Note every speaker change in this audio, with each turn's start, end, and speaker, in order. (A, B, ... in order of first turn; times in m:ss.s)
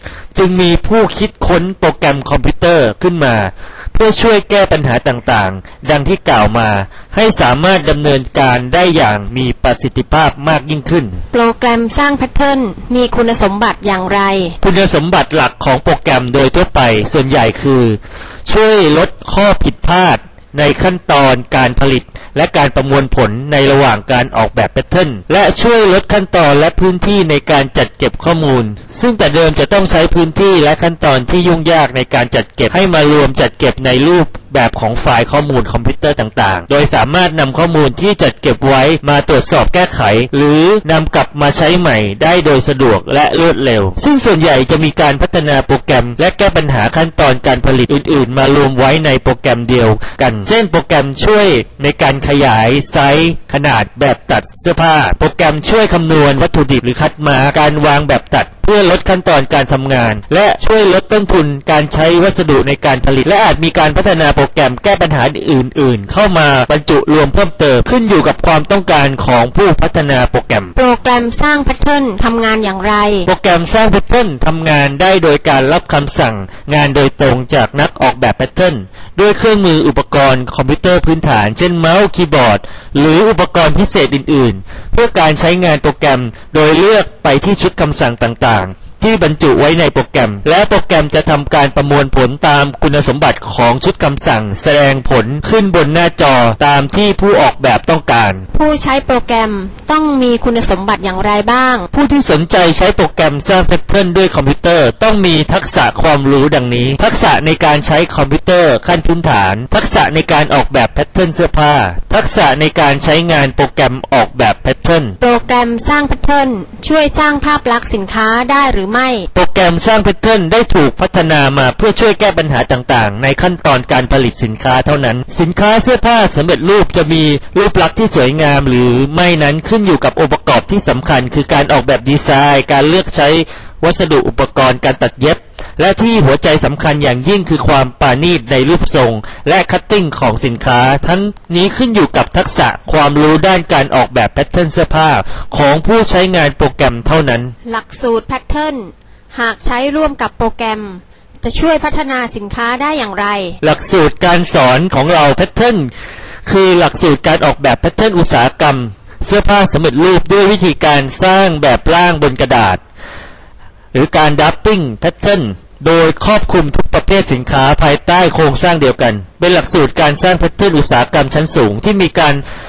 0:00.3-0:11.2 A
0:11.3-0:14.6 B
0:14.6-1:10.7 A
1:10.8-1:13.3 B
1:13.3-1:38.5 A
1:38.5-1:41.9 B
1:41.9-1:55.2 A
1:55.2-1:59.3 B
1:59.3-2:27.5 A
2:27.6-2:33.6 B
2:33.6-2:35.9 A
2:36.5-2:42.8 A
2:43.9-2:52.4 A